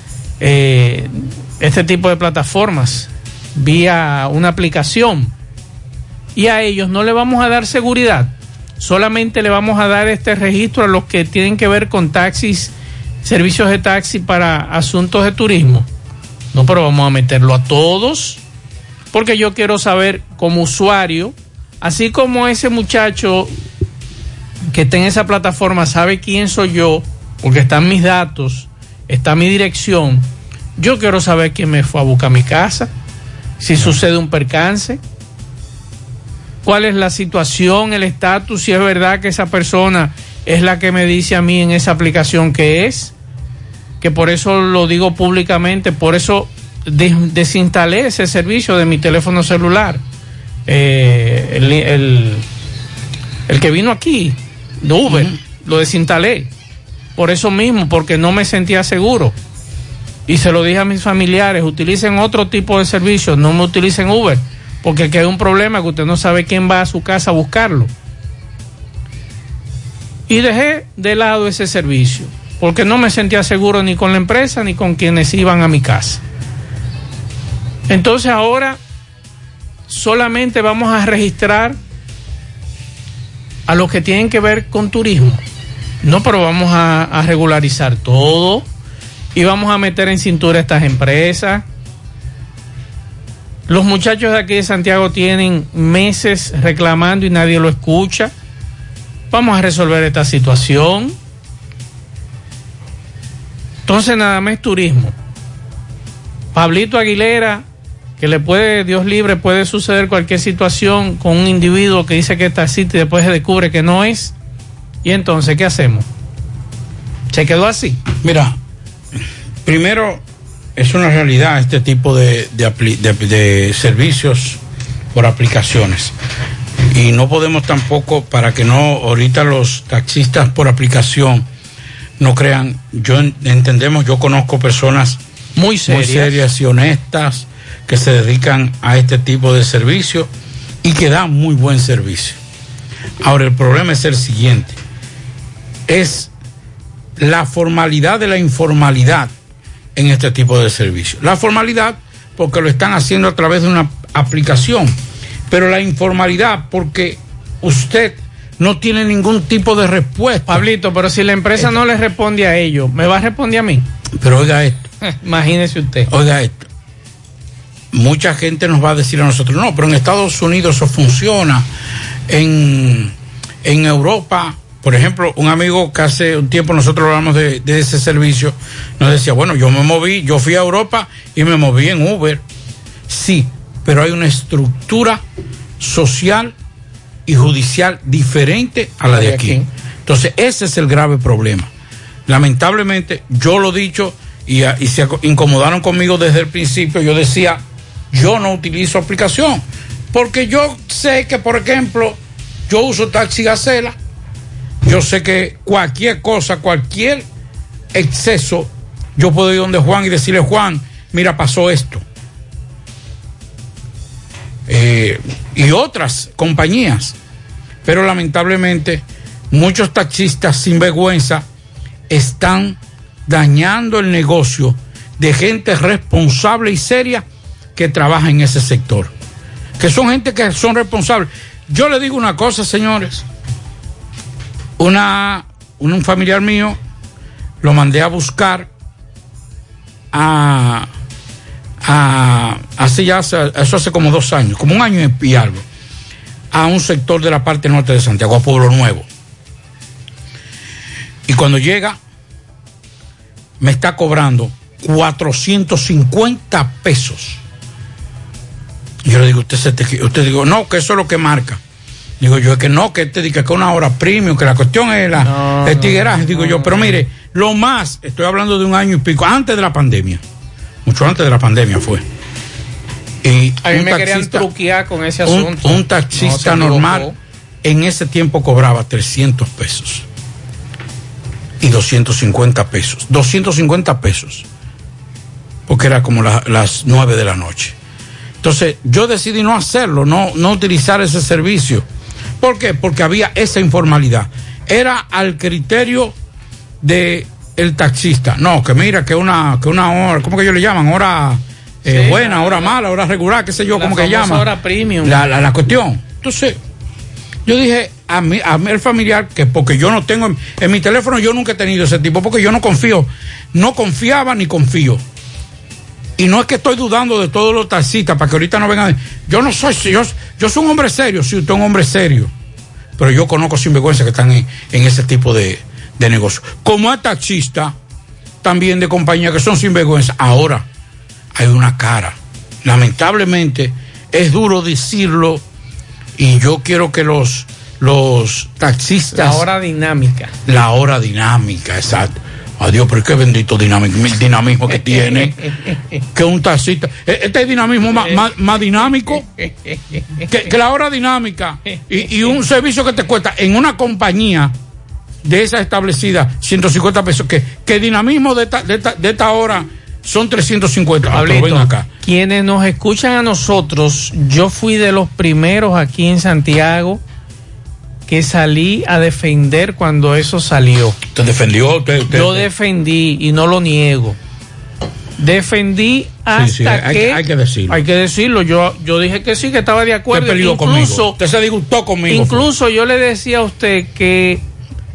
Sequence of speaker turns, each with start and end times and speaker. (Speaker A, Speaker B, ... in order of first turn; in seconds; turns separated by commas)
Speaker A: 0.4-5.3, Speaker A: 6.3-12.7, Speaker A: 13.2-15.9, Speaker A: 16.5-18.4, Speaker A: 19.1-23.5, Speaker A: 24.7-32.9, Speaker A: 33.6-35.0, Speaker A: 36.6-43.1, Speaker A: 44.0-50.0, Speaker A: 50.7-52.4, Speaker A: 53.5-56.5, Speaker B: 55.1-55.4, Speaker A: 57.1-59.3, Speaker A: 60.3-67.9, Speaker A: 70.3-76.2, Speaker A: 77.9-78.8, Speaker A: 79.9-81.8, Speaker A: 83.7-85.4, Speaker A: 86.0-88.7, Speaker A: 89.3-91.6, Speaker A: 93.7-98.3, Speaker A: 99.3-101.2, Speaker A: 103.8-105.1, Speaker A: 106.5-107.6, Speaker A: 108.2-114.3, Speaker A: 115.0-116.1, Speaker A: 117.3-118.0, Speaker B: 118.2-118.5, Speaker B: 119.6-120.2, Speaker B: 120.8-124.6, Speaker B: 125.1-126.1, Speaker B: 126.9-131.4, Speaker B: 132.2-135.2, Speaker A: 135.6-136.4, Speaker B: 135.9-140.3, Speaker B: 140.8-142.4, Speaker B: 143.2-144.8, Speaker B: 145.9-146.3, Speaker B: 147.2-149.3, Speaker B: 149.9-154.9, Speaker B: 155.5-160.6, Speaker A: 160.4-163.9, Speaker B: 164.2-164.8, Speaker A: 165.0-166.1, Speaker B: 166.1-166.6, Speaker B: 167.9-171.7, Speaker B: 172.3-173.1, Speaker B: 173.6-182.4, Speaker B: 183.1-185.2, Speaker B: 185.8-186.5, Speaker B: 187.3-191.7, Speaker A: 189.1-189.7, Speaker B: 192.3-202.2, Speaker B: 202.7-203.9, Speaker B: 204.8-207.2, Speaker B: 207.9-212.0, Speaker B: 214.7-217.2, Speaker B: 217.8-221.4, Speaker B: 222.1-227.2, Speaker B: 227.8-229.1, Speaker B: 229.8-233.2, Speaker B: 234.8-236.8, Speaker B: 237.6-238.7, Speaker B: 240.1-240.9, Speaker B: 241.8-245.6, Speaker B: 246.5-249.1, Speaker B: 251.3-252.0, Speaker B: 253.6-257.4, Speaker B: 259.0-261.6, Speaker B: 262.2-270.2, Speaker A: 265.2-267.0, Speaker B: 270.8-272.0, Speaker B: 273.2-274.5, Speaker A: 273.6-277.1, Speaker B: 275.2-277.1, Speaker B: 277.6-280.0, Speaker B: 281.6-284.4, Speaker B: 285.7-287.8, Speaker B: 288.4-291.8, Speaker B: 292.4-296.1, Speaker B: 296.8-304.5, Speaker A: 301.9-302.8, Speaker A: 303.7-305.2, Speaker B: 305.0-306.6, Speaker B: 307.4-315.0, Speaker B: 316.2-322.3, Speaker B: 323.0-327.7, Speaker B: 328.4-330.6, Speaker B: 331.3-335.4, Speaker B: 336.2-339.4, Speaker A: 339.1-340.3, Speaker B: 340.4-345.4, Speaker A: 344.8-345.8, Speaker B: 346.1-349.2, Speaker A: 349.1-350.3, Speaker B: 350.3-354.5, Speaker B: 355.2-361.9, Speaker A: 361.1-367.0, Speaker A: 368.1-371.0, Speaker B: 371.1-372.5, Speaker A: 372.1-374.2, Speaker A: 375.2-381.1, Speaker B: 376.3-377.8, Speaker B: 380.1-382.5, Speaker A: 382.1-384.4